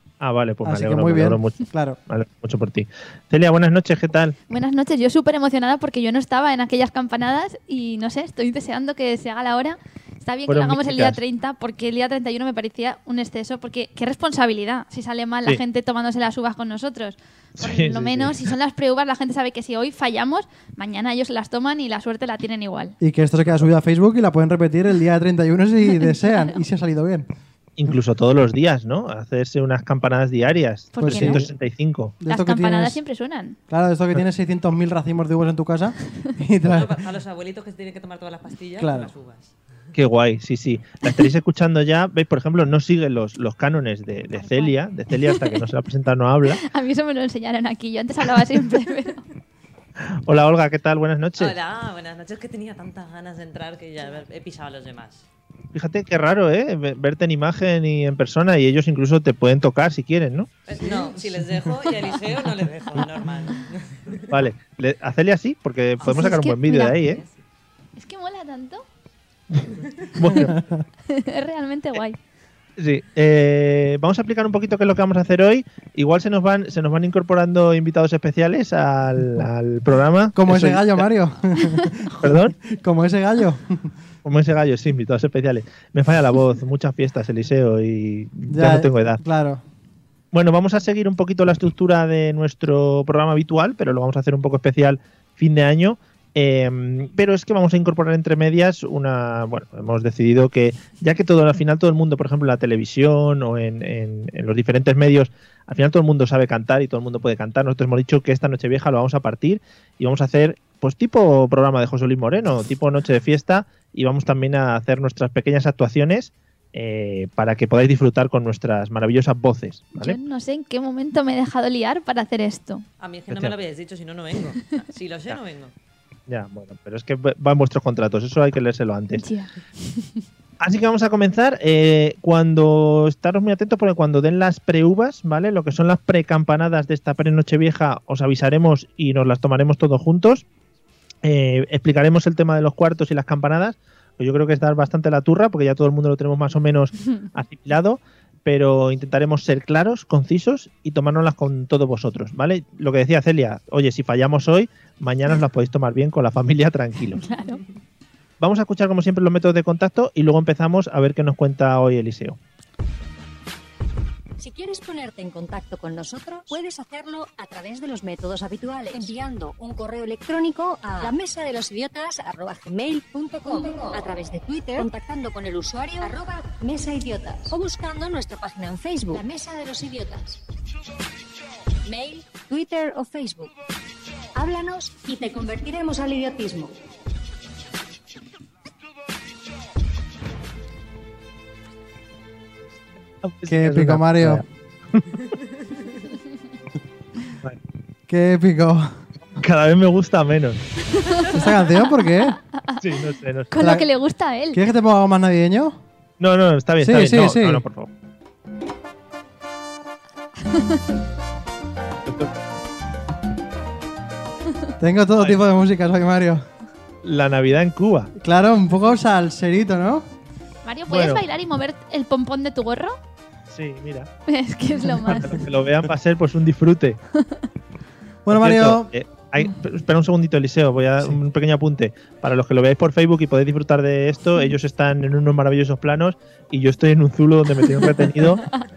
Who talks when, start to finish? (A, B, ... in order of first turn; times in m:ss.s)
0:00.2-0:04.4 A
0:00.6-0:02.0 B
0:04.5-0:22.9 C
0:10.5-0:11.2 A
0:17.6-0:18.4 A
0:23.0-0:27.3 B
0:26.0-0:26.6 C
0:27.8-0:32.1 A
0:30.9-0:31.4 C
0:31.0-0:31.5 B
0:32.2-0:33.0 B
0:32.3-0:33.6 C
0:33.7-0:37.0 B
0:36.6-0:39.5 D
0:38.8-0:39.1 B
0:39.9-0:46.6 A
0:44.4-0:45.5 C
0:46.5-0:49.2 C
0:50.2-0:51.5 A
0:51.4-0:55.2 D
0:55.7-1:00.5 A
1:00.7-1:04.4 D
1:00.7-1:01.9 B
1:04.3-1:07.2 A
1:06.0-1:07.0 C
1:07.0-1:07.3 D
1:08.0-1:08.8 C
1:09.5-1:10.6 A
1:10.3-1:10.8 B
1:11.1-1:12.2 C
1:12.8-1:21.1 A
1:20.3-1:23.9 B
1:22.2-1:22.5 A
1:24.2-1:29.2 A
1:28.5-1:29.6 B
1:30.3-2:00.2 A
2:00.0-2:02.8 C
2:03.0-2:05.7 D
2:03.3-2:03.6 A
2:06.3-2:09.2 A
2:09.1-2:10.2 C
2:10.6-2:20.4 A
2:21.2-2:37.3 A
2:37.2-2:37.6 C
2:38.4-2:42.4 A
2:44.4-3:00.4 E
3:01.8-3:03.5 E
3:04.4-3:06.8 E
3:13.2-3:15.3 A
3:13.5-3:14.4 B
3:18.1-3:18.9 B
3:19.3-3:20.6 A
3:21.0-3:22.9 C
3:21.3-3:22.4 B
3:22.8-3:23.5 A
3:23.5-3:24.6 C
3:23.6-3:23.9 B
3:24.5-3:25.8 B
3:26.2-3:27.9 A
3:26.8-3:27.6 B
3:30.5-3:30.8 C
3:32.0-3:32.3 A
3:34.8-3:36.4 B
3:37.0-3:38.1 A
3:38.2-3:40.1 B
3:40.6-3:42.9 C
3:40.9-3:41.2 A
3:43.5-3:44.1 A
3:44.3-3:45.4 C
3:45.1-3:47.0 A
3:48.2-3:48.9 B
3:48.3-3:58.6 A